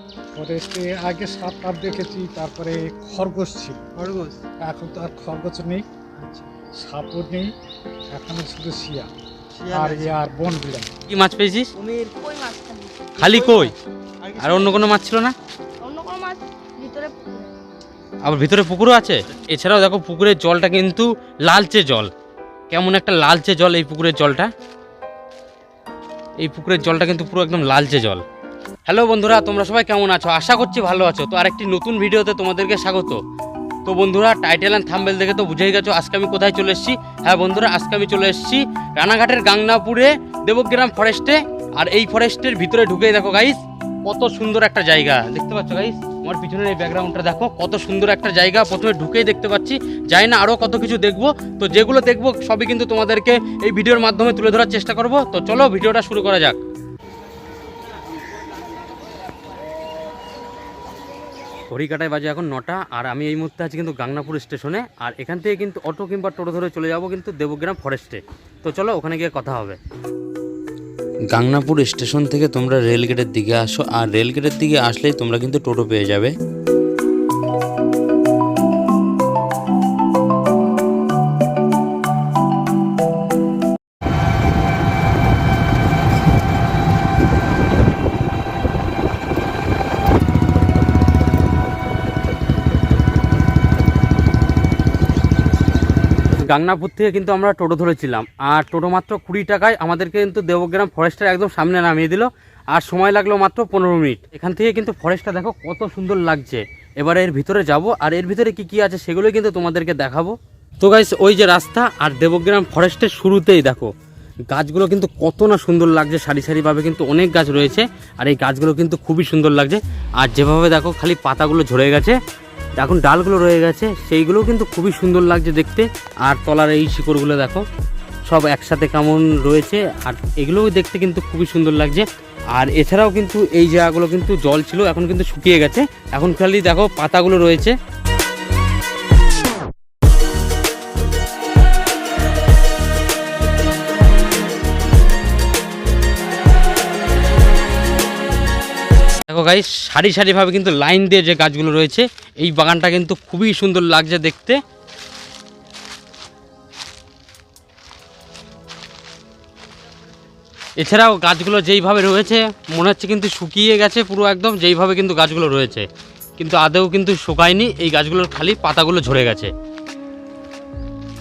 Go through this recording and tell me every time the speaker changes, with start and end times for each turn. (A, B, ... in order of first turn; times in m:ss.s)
0:00.4-0:03.8 A
0:03.9-0:04.4 B
0:04.6-0:05.8 A
0:06.2-0:06.5 B
0:06.8-0:07.5 A
0:08.1-0:09.1 A
0:09.5-0:10.1 B
0:09.7-0:10.9 A
0:11.1-0:11.7 C
0:11.8-0:12.1 B
0:12.1-0:13.1 D
0:13.2-0:13.8 C
0:13.2-0:14.9 B
0:14.4-0:15.3 C
0:15.8-0:17.6 D
0:18.2-0:22.1 C
0:22.7-0:24.5 C
0:26.4-0:28.2 C
0:28.9-0:33.2 C
0:33.8-0:56.6 C
1:01.7-1:09.8 C
1:11.3-1:16.3 C
1:36.3-1:53.9 C
1:54.5-2:02.2 C
2:02.8-2:07.6 C
2:08.3-2:17.7 C
2:29.3-2:34.6 C
2:40.8-2:45.8 C
2:46.4-2:49.5 C